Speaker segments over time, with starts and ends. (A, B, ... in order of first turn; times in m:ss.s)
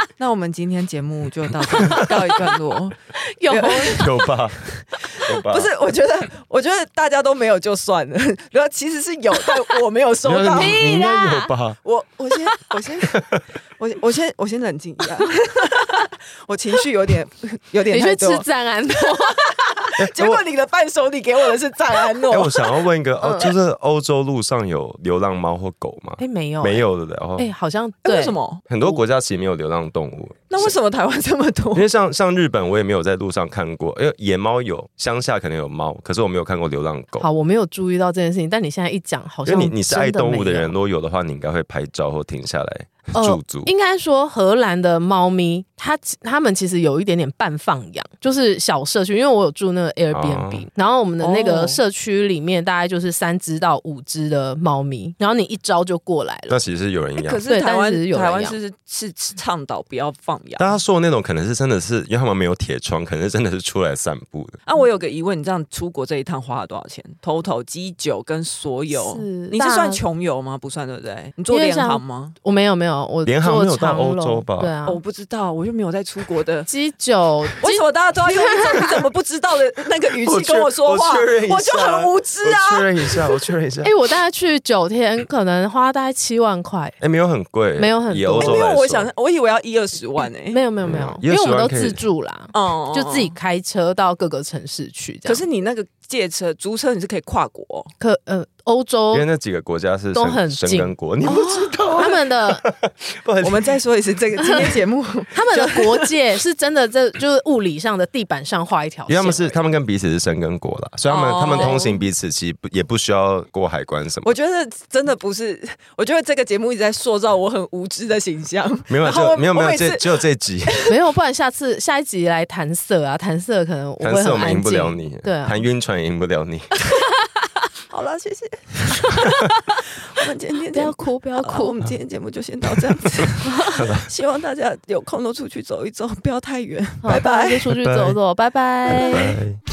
0:00.2-0:04.1 A
0:01.8-0:02.2 B
0:03.2-0:04.1 B
0:04.0-0:04.7 C
0:04.7-0:10.8 A
0:05.3-0:05.7 C
0:10.2-0:11.8 C
0:10.6-0:11.6 B
0:11.8-0:18.5 A
0:17.9-0:19.4 B
0:19.3-0:22.7 A
0:20.0-0:20.4 C
0:22.3-0:27.5 C
0:23.2-0:23.5 B
0:26.2-0:29.0 B
0:28.0-0:28.6 A
0:28.7-0:30.7 C
0:30.5-0:31.9 A
0:31.7-0:37.3 C
0:37.2-0:40.7 B
0:39.4-0:43.7 C
0:43.1-0:56.6 B
0:50.1-0:50.7 C
0:51.2-0:51.8 A
0:56.5-0:57.4 C
0:57.2-1:00.8 A
0:57.5-0:58.6 B
1:00.6-1:04.6 C
1:04.7-1:12.4 A
1:08.9-1:10.0 B
1:11.5-1:15.0 B
1:13.2-1:14.8 C
1:14.8-1:16.7 A
1:16.7-1:19.0 B
1:17.6-1:23.5 A
1:20.2-1:23.9 C
1:23.8-1:27.0 B
1:27.0-1:29.1 C
1:27.8-1:28.6 B
1:28.3-1:30.6 A
1:30.5-1:35.5 B
1:30.8-1:32.0 C
1:32.5-1:33.3 A
1:35.2-1:37.9 A
1:38.0-1:39.3 B
1:39.1-1:43.7 C
1:40.1-1:42.7 B
1:43.4-1:46.1 A
1:44.4-1:44.8 B
1:45.3-1:49.6 B
1:49.1-1:54.4 C
1:51.1-1:52.0 A
1:51.5-1:51.8 B
1:54.2-2:00.9 A
1:58.9-2:00.8 C
2:00.9-2:05.7 B
2:04.0-2:06.7 C
2:06.9-2:07.3 A
2:07.9-2:17.7 A
2:10.7-2:11.8 B
2:13.7-2:14.1 C
2:17.0-2:19.4 B
2:17.2-2:18.2 C
2:18.9-2:19.4 A
2:19.0-2:19.6 C